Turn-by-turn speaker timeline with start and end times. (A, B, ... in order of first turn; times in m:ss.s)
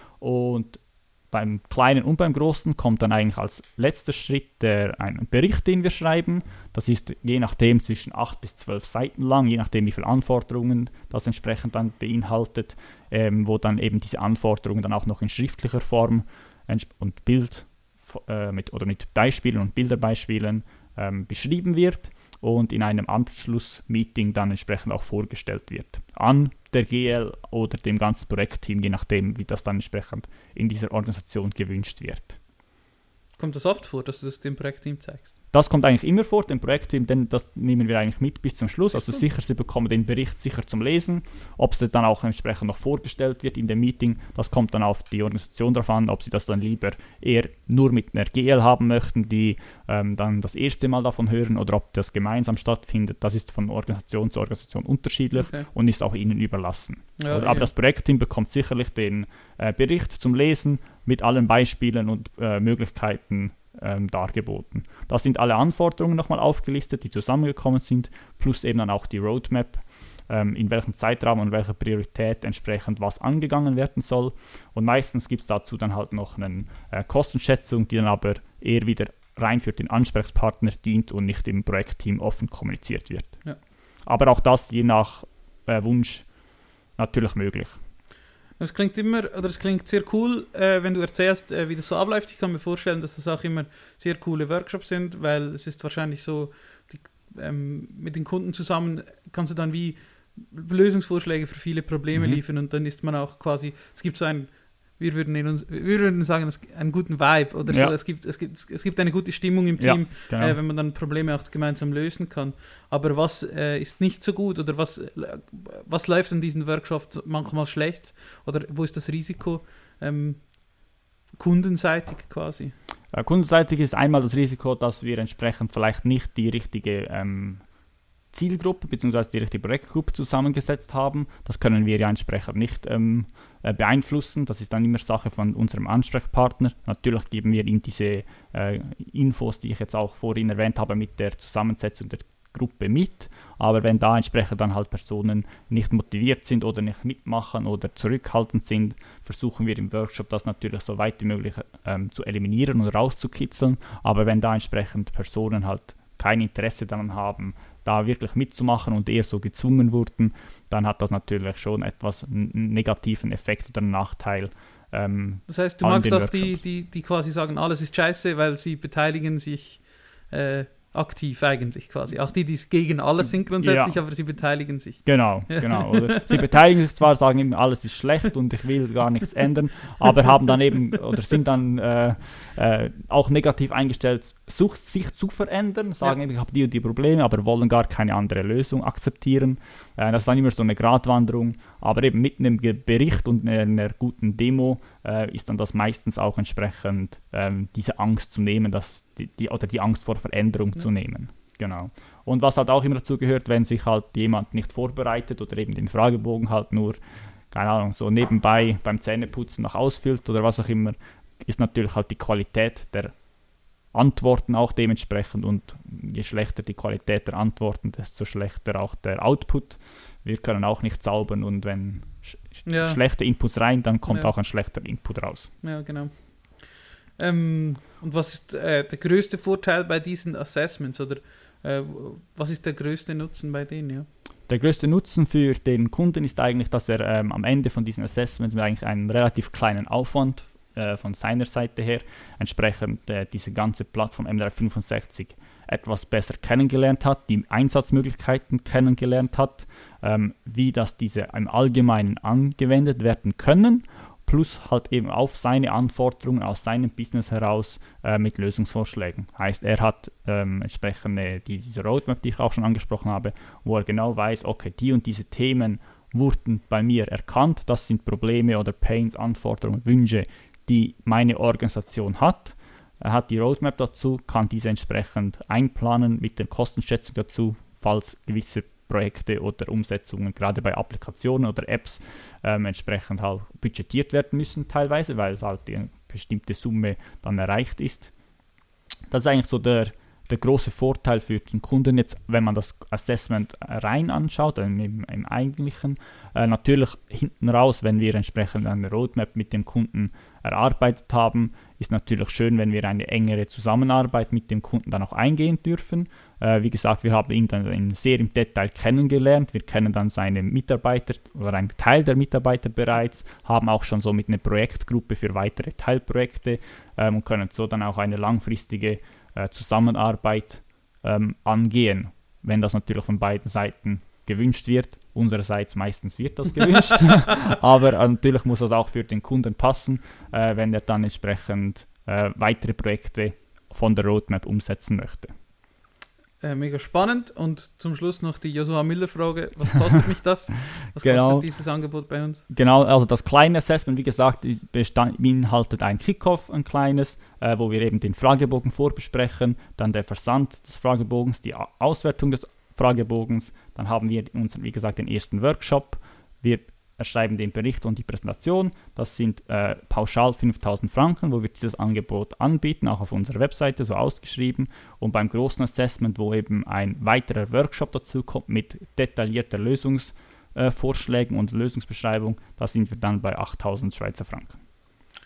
0:00.2-0:32.4 A
0:33.4-0:35.3 B
0:35.5-1:23.4 A
0:57.2-0:57.7 B
1:24.0-1:26.3 A
1:27.0-1:27.8 A
1:28.6-2:00.6 B
1:42.1-1:42.4 A
1:47.7-1:47.9 A
1:49.8-1:50.6 A
2:01.4-2:02.7 B
2:03.1-2:07.6 A
2:08.3-2:46.6 A
2:45.5-2:56.4 B
2:53.6-2:54.0 A
2:55.0-3:27.0 A
3:27.5-3:33.2 A
3:33.9-3:45.5 A
3:42.6-3:43.0 B
3:44.1-3:44.3 B
3:45.6-3:46.6 B
3:47.2-3:54.1 B
3:54.5-4:48.1 A
4:49.1-5:35.3 A
5:36.4-5:42.4 B
5:41.0-5:41.4 A
5:42.5-6:14.6 A